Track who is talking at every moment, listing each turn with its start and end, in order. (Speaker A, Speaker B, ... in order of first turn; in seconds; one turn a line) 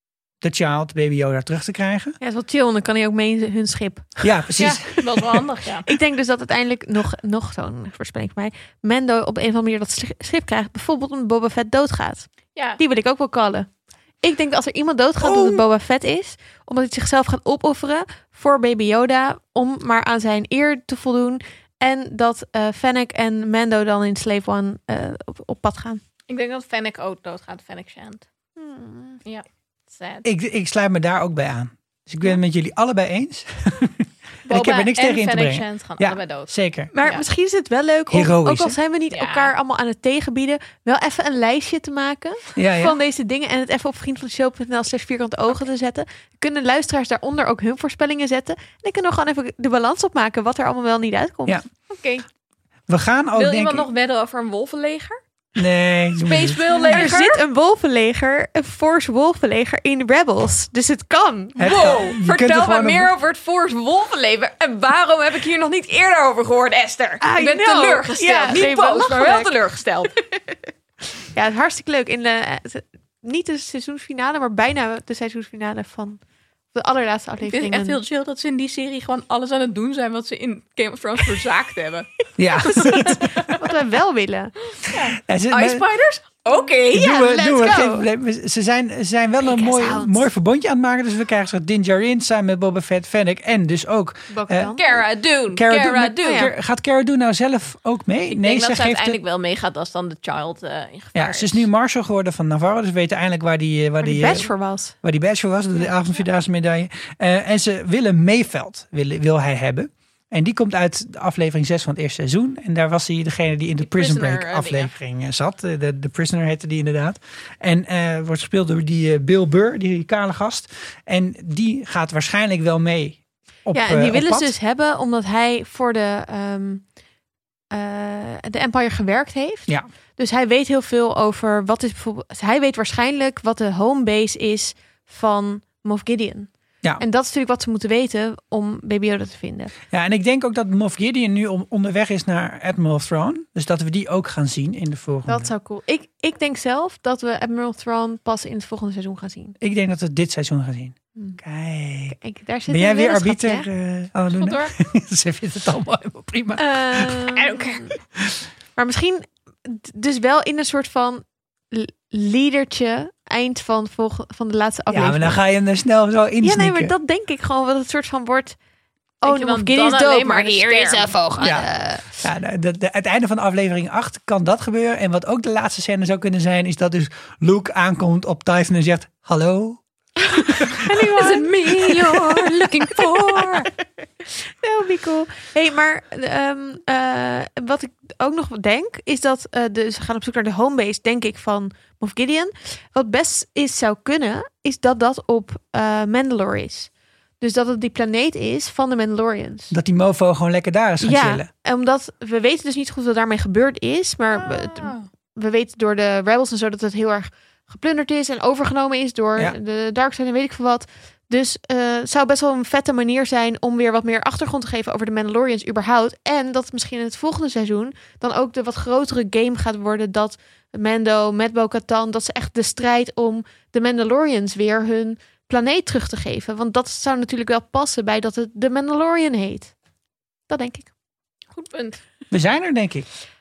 Speaker A: 0.4-2.2
Speaker B: 2.2-4.2
Speaker A: 4.2-5.4
Speaker C: 4.6-5.9
Speaker B: 5.9-13.7
Speaker C: 12.6-12.8
Speaker B: 14.2-26.0
Speaker C: 26.3-28.2
Speaker B: 28.6-29.2
Speaker C: 29.2-30.2
Speaker A: 30.2-36.9
Speaker C: 34.5-36.5
Speaker B: 36.9-51.6
Speaker A: 38.1-38.8
Speaker C: 39.1-39.5
Speaker A: 42.6-42.9
Speaker A: 52.9-53.9
Speaker C: 53.4-55.2
Speaker A: 55.6-57.1
Speaker C: 56.2-57.4
Speaker B: 56.7-61.8
Speaker A: 61.6-63.1
Speaker C: 61.6-70.1
Speaker B: 67.2-69.6
Speaker B: 71.2-76.2
Speaker B: 76.7-78.0
Speaker C: 77.5-83.6
Speaker A: 82.4-83.3
Speaker B: 82.7-84.5
Speaker C: 84.8-87.1
Speaker A: 85.2-85.8
Speaker B: 86.9-88.1
Speaker A: 86.9-94.8
Speaker B: 89.4-90.3
Speaker B: 94.3-95.0
Speaker C: 94.8-96.5
Speaker A: 95.5-99.2
Speaker B: 96.2-96.5
Speaker C: 98.3-101.7
Speaker A: 101.2-104.5
Speaker B: 104.0-105.0
Speaker A: 105.0-124.5
Speaker C: 113.8-114.9
Speaker B: 123.7-126.8
Speaker B: 127.7-139.7
Speaker A: 139.9-145.5
Speaker B: 145.3-149.6
Speaker A: 149.6-152.2
Speaker B: 152.1-153.7
Speaker A: 152.7-156.8
Speaker C: 154.4-154.7
Speaker B: 156.6-157.9
Speaker C: 157.3-157.9
Speaker B: 158.8-165.4
Speaker A: 164.9-166.9
Speaker B: 166.4-168.6
Speaker C: 169.2-171.1
Speaker B: 169.2-172.2
Speaker A: 171.4-171.7
Speaker A: 172.2-179.8
Speaker B: 180.3-183.7
Speaker C: 180.8-183.7
Speaker B: 184.2-199.7
Speaker A: 199.7-201.5
Speaker B: 201.0-229.7
Speaker C: 204.3-205.1
Speaker B: 230.5-230.9
Speaker C: 231.5-232.1
Speaker A: 232.3-233.1